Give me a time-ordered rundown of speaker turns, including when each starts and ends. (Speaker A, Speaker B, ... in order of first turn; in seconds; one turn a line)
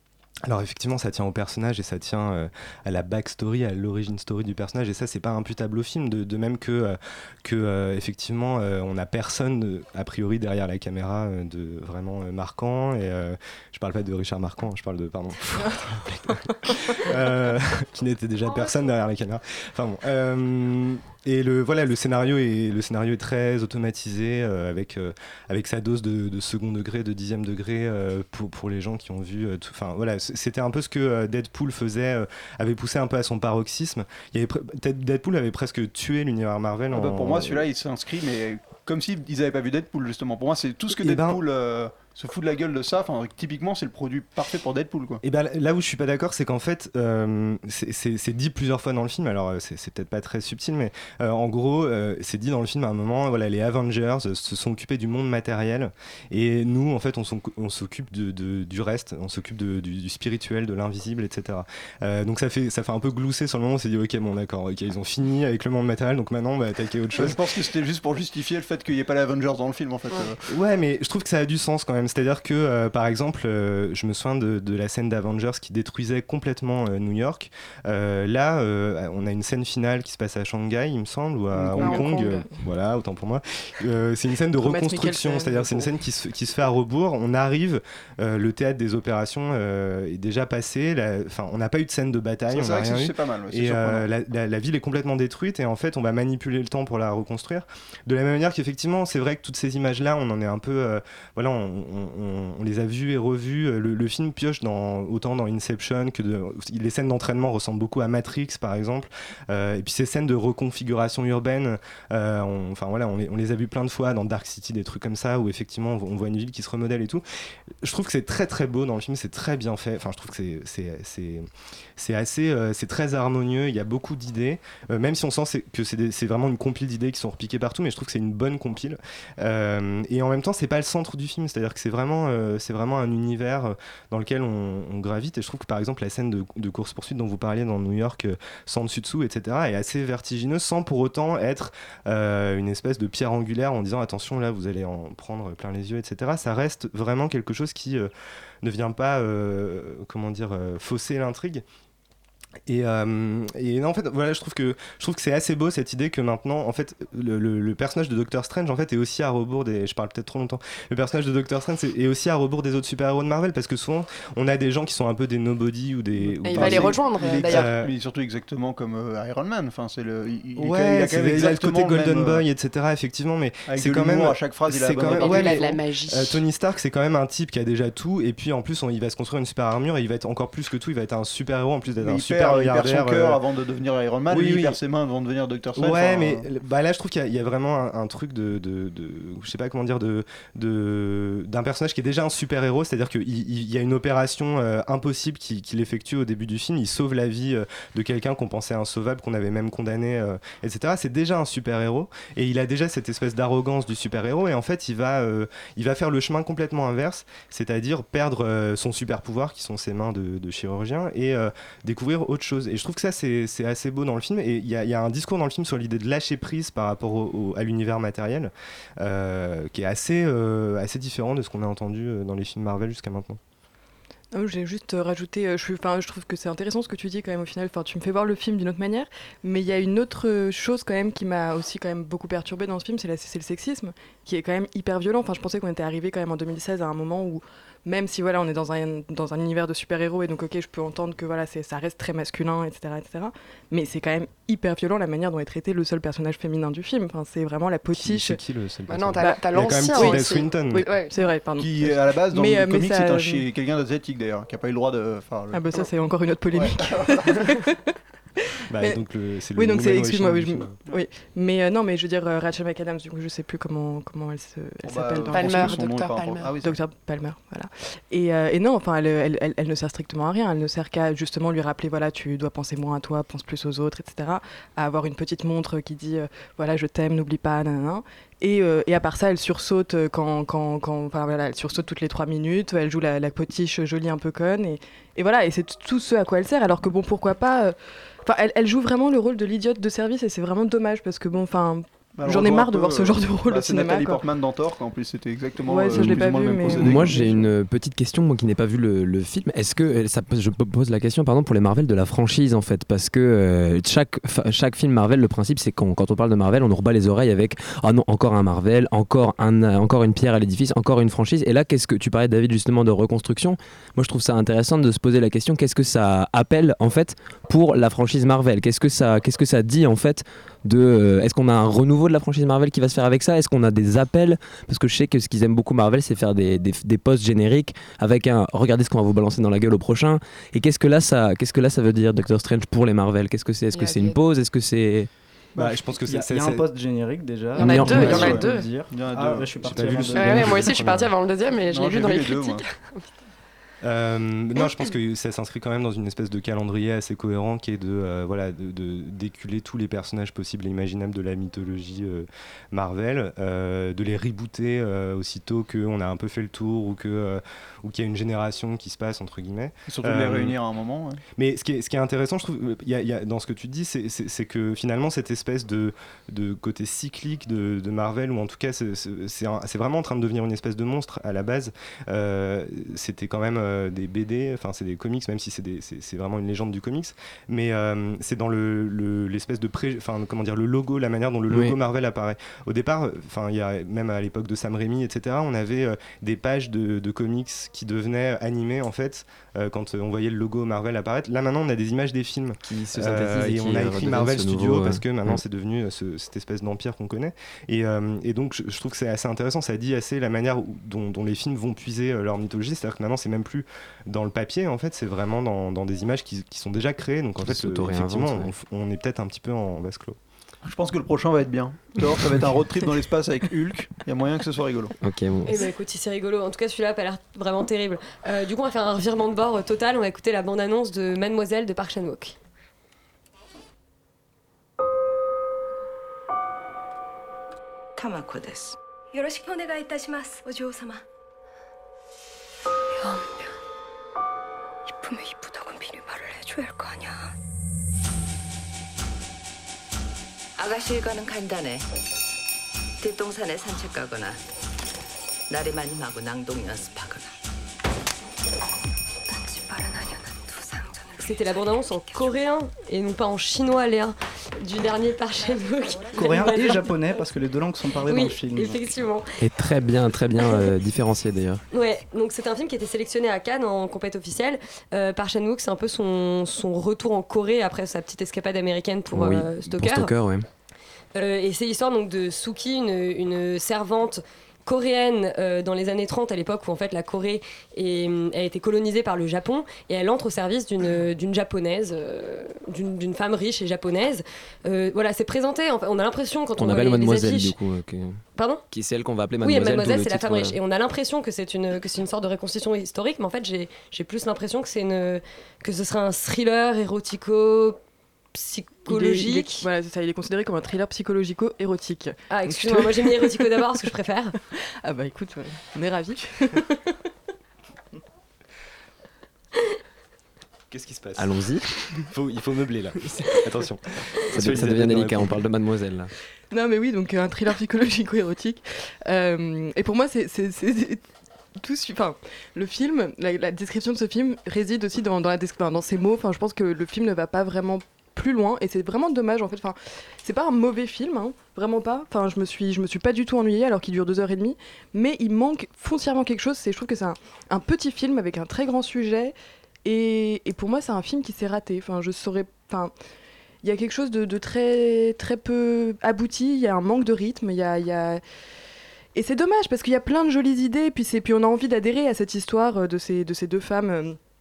Speaker A: 0.4-16.2
Speaker B: 15.5-16.8
Speaker A: 17.0-37.7
Speaker C: 36.9-45.2
Speaker A: 40.9-41.4
Speaker A: 45.2-67.4
Speaker C: 67.2-70.4
Speaker A: 70.5-117.2
Speaker C: 81.5-82.1
Speaker D: 81.8-82.5
Speaker B: 81.8-82.5
Speaker B: 84.6-86.0
Speaker C: 92.5-94.1
Speaker A: 117.8-148.1
Speaker A: 148.6-151.6
Speaker A: 152.7-167.9
Speaker C: 166.2-172.5
Speaker D: 166.4-167.7
Speaker A: 170.6-183.4
Speaker C: 173.7-175.8
Speaker D: 175.0-176.4
Speaker C: 182.0-186.4
Speaker A: 184.3-184.8
Speaker A: 185.8-223.4
Speaker B: 224.3-248.4
Speaker A: 247.9-250.9
Speaker D: 248.9-251.1
Speaker B: 249.2-253.5
Speaker C: 251.6-255.9
Speaker B: 255.5-257.8
Speaker C: 256.5-257.6
Speaker A: 258.7-260.8
Speaker B: 258.7-259.0
Speaker B: 259.6-265.8
Speaker C: 264.8-266.8
Speaker D: 265.3-266.5
Speaker B: 266.6-294.2
Speaker C: 292.2-297.5
Speaker B: 295.6-297.3
Speaker E: 295.9-335.1
Speaker D: 333.7-334.2
Speaker A: 335.6-336.6
Speaker F: 335.6-340.9
Speaker D: 337.6-338.7
Speaker E: 337.6-337.9
Speaker C: 338.0-339.9
Speaker A: 339.6-341.1
Speaker D: 340.1-343.1
Speaker C: 341.7-342.6
Speaker A: 343.8-360.6
Speaker D: 344.6-344.9
Speaker C: 359.9-361.2
Speaker A: 361.4-410.2
Speaker E: 381.5-381.8
Speaker E: 392.6-395.4
Speaker E: 407.4-408.5
Speaker C: 410.6-414.9
Speaker E: 415.0-415.6
Speaker G: 415.5-422.4
Speaker H: 428.0-428.8
Speaker I: 429.1-431.0
Speaker I: 432.9-433.6
Speaker I: 434.9-437.3
Speaker H: 440.6-441.9
Speaker H: 443.0-444.4
Speaker H: 445.5-447.4
Speaker I: 449.3-452.4
Speaker G: 451.2-456.9
Speaker F: 456.2-458.9
Speaker G: 458.1-459.3
Speaker E: 459.4-461.6
Speaker G: 460.4-460.7
Speaker G: 461.7-470.1
Speaker E: 469.1-470.5
Speaker G: 471.1-487.6
Speaker E: 486.6-490.6
Speaker G: 488.4-488.6
Speaker G: 489.4-497.8
Speaker G: 498.3-499.7
Speaker B: 498.9-503.7
Speaker G: 502.3-504.4
Speaker B: 504.5-506.8
Speaker A: 510.7-515.4
Speaker E: 511.2-511.7
Speaker E: 514.3-516.1
Speaker B: 516.5-521.1
Speaker B: 521.6-542.9
Speaker B: 543.6-548.2
Speaker B: 549.1-554.2